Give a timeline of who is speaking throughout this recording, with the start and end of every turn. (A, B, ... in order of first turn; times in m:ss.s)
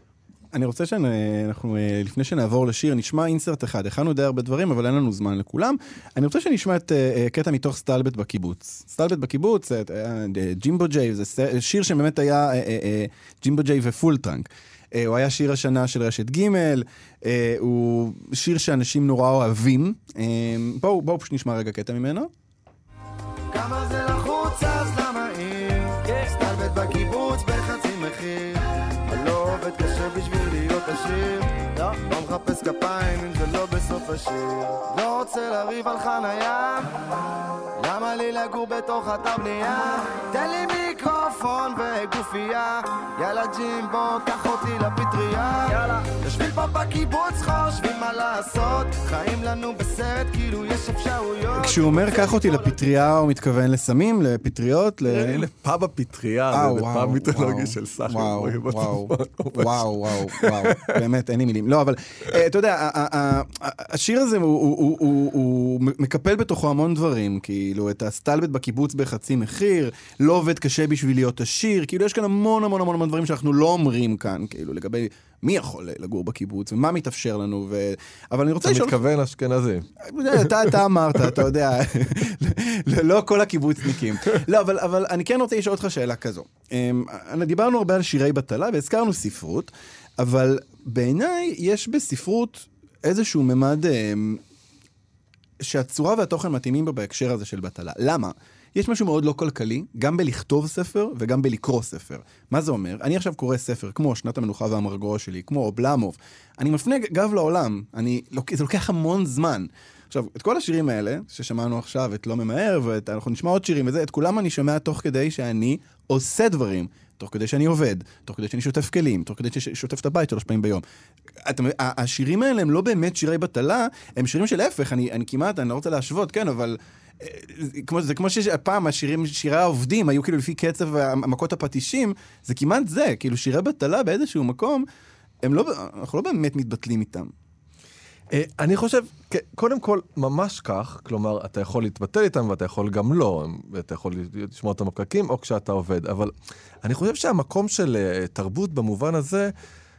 0:00.5-0:22.3 A
0:23.5-0:36.9 B
0:37.8-0:52.9 B
0:51.6-0:55.5 A
0:55.1-1:01.0 C
0:56.5-1:19.0 A
1:18.6-1:19.9 C
1:20.0-1:34.4 A
1:35.6-2:00.8 A
2:01.4-2:14.8 A
2:15.4-2:17.3 A
2:18.3-2:29.5 C